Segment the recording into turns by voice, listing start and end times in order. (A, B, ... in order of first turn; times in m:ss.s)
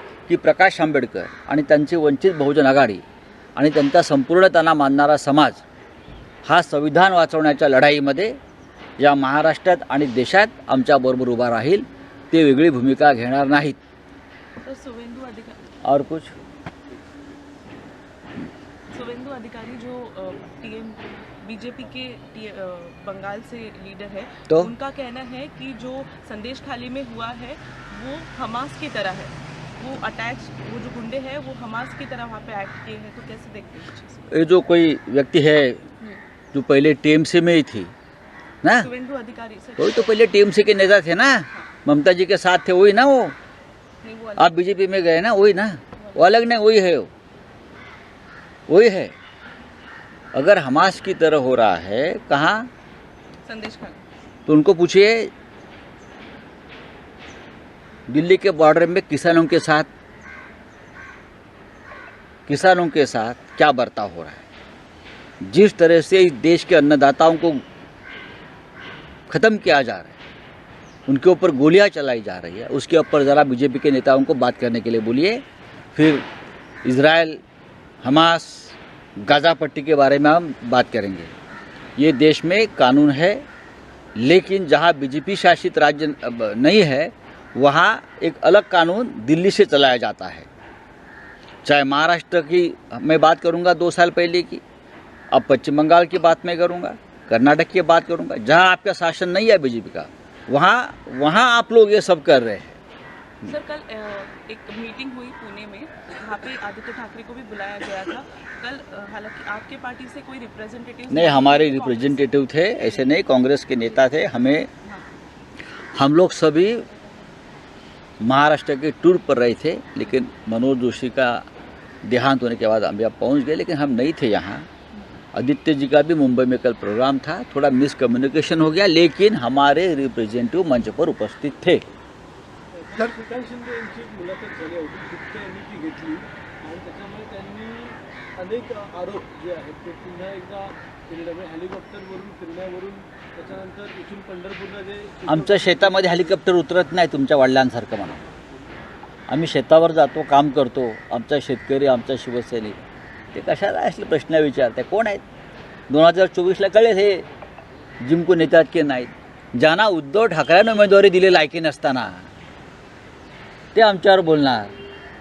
0:00.3-0:03.0 A
0:03.6-0:05.6 A
0:06.5-0:08.4 A
0:09.0-0:13.8 A
0:14.6-0:15.6 B
0:15.8-0:16.3 A
0:18.9-0:34.3 B
0:34.3-0:35.8 A
0:36.5-0:37.9 A
0:38.6-0:38.9 A
0:38.8-0:40.3 B
0:39.8-0:43.4 A
0:41.5-0:41.8 B
0:44.0-0:44.6 B
0:44.4-0:47.1 A
0:46.0-0:46.4 B
0:48.7-0:49.2 A
0:50.3-0:52.7 A
0:53.4-0:54.0 B
0:54.5-0:55.3 A
0:58.1-0:59.9 A
1:02.5-1:04.4 A
1:05.4-1:07.6 A
1:09.3-1:10.2 A
1:11.1-1:15.4 A
1:16.0-1:16.2 A
1:16.8-1:17.4 A
1:18.0-1:21.3 A
1:22.0-1:23.4 A
1:24.2-1:30.5 A
1:31.6-1:34.6 A
1:35.3-1:42.8 A
1:43.5-1:53.2 B
1:51.1-1:54.7 A
1:56.0-1:56.8 A
1:58.2-2:01.4 A
2:02.0-2:04.7 A
2:05.3-2:11.8 A
2:12.7-2:26.4 C
2:25.3-2:28.2 A
2:29.3-2:32.8 A
2:33.3-2:35.2 A
2:35.9-2:37.2 A
2:38.0-2:42.3 A
2:43.7-2:44.8 A